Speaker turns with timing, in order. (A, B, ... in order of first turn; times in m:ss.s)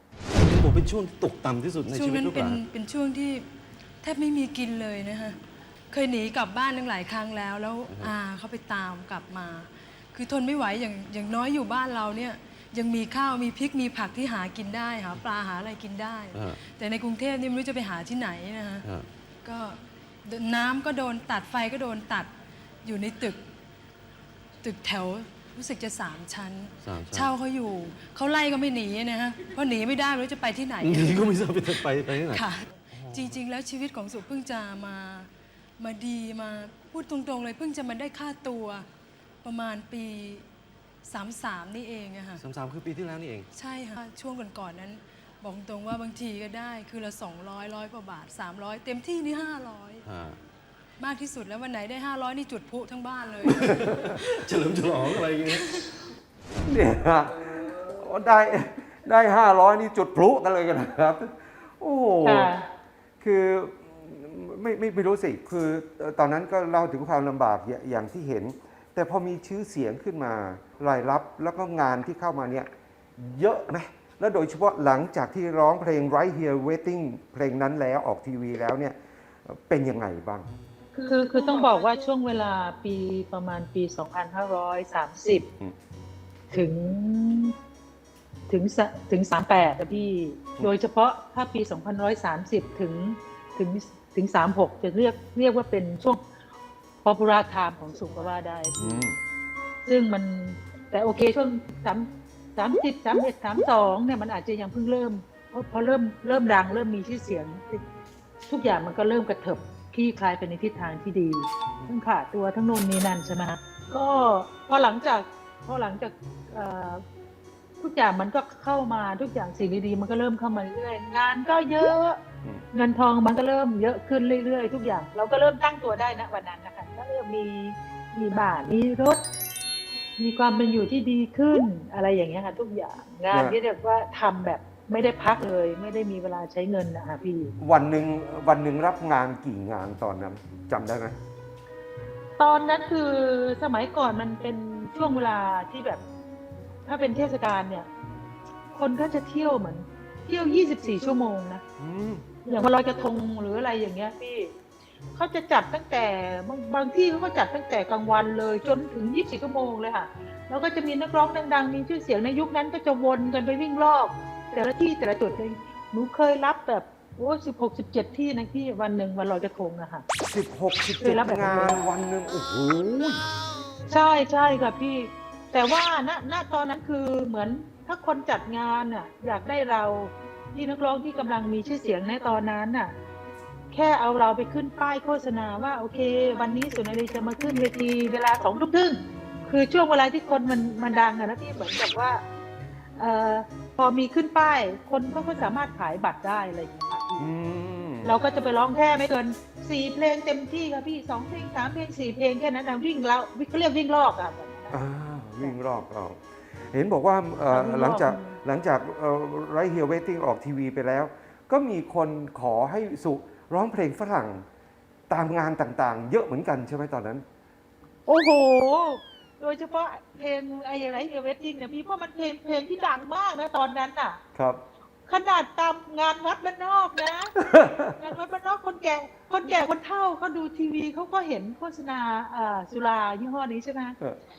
0:00.3-0:02.6 A
0:01.9-0:03.4 B
0:04.0-0:05.4 B
0:05.9-0:18.8 B
0:16.3-0:16.6 A
0:19.4-0:22.3 B
0:22.8-0:23.4 B
0:24.6-0:31.3 B
0:26.8-0:27.3 A
0:30.8-0:33.4 A
0:32.3-0:38.9 B
0:39.4-0:40.4 B
0:41.0-0:42.4 B
0:42.4-0:43.5 A
0:43.5-0:50.0 B
0:50.0-0:50.4 A
0:51.0-0:53.7 B
0:53.4-0:55.9 A
0:56.6-1:02.5 C
1:02.2-1:02.6 D
1:03.2-1:20.5 C
1:20.9-1:25.4 D
1:26.5-1:27.5 D
1:28.5-1:36.2 D
1:37.0-1:39.0 D
1:38.8-1:39.2 C
1:39.8-1:47.8 D
1:48.5-1:57.0 D
1:57.8-2:02.2 D
2:02.7-2:09.2 D
2:10.2-2:17.5 D
2:13.3-2:13.6 C
2:17.6-2:21.1 C
2:22.4-2:26.0 D
2:26.8-2:27.9 D
2:28.7-2:31.6 D
2:31.8-2:32.2 C
2:32.4-2:34.5 D
2:35.1-2:50.0 D
2:50.3-2:53.3 C
2:51.0-2:51.8 D
2:53.9-3:02.9 D
3:03.7-3:12.2 D
3:13.0-3:17.3 D
3:17.2-3:18.1 C
3:18.0-3:24.8 D
3:24.7-3:34.4 C
3:27.5-3:28.3 D
3:35.1-3:37.2 C
3:38.1-3:44.2 D
3:44.3-3:44.6 C
3:45.1-3:47.3 D
3:47.4-3:47.9 C
3:48.0-3:54.0 D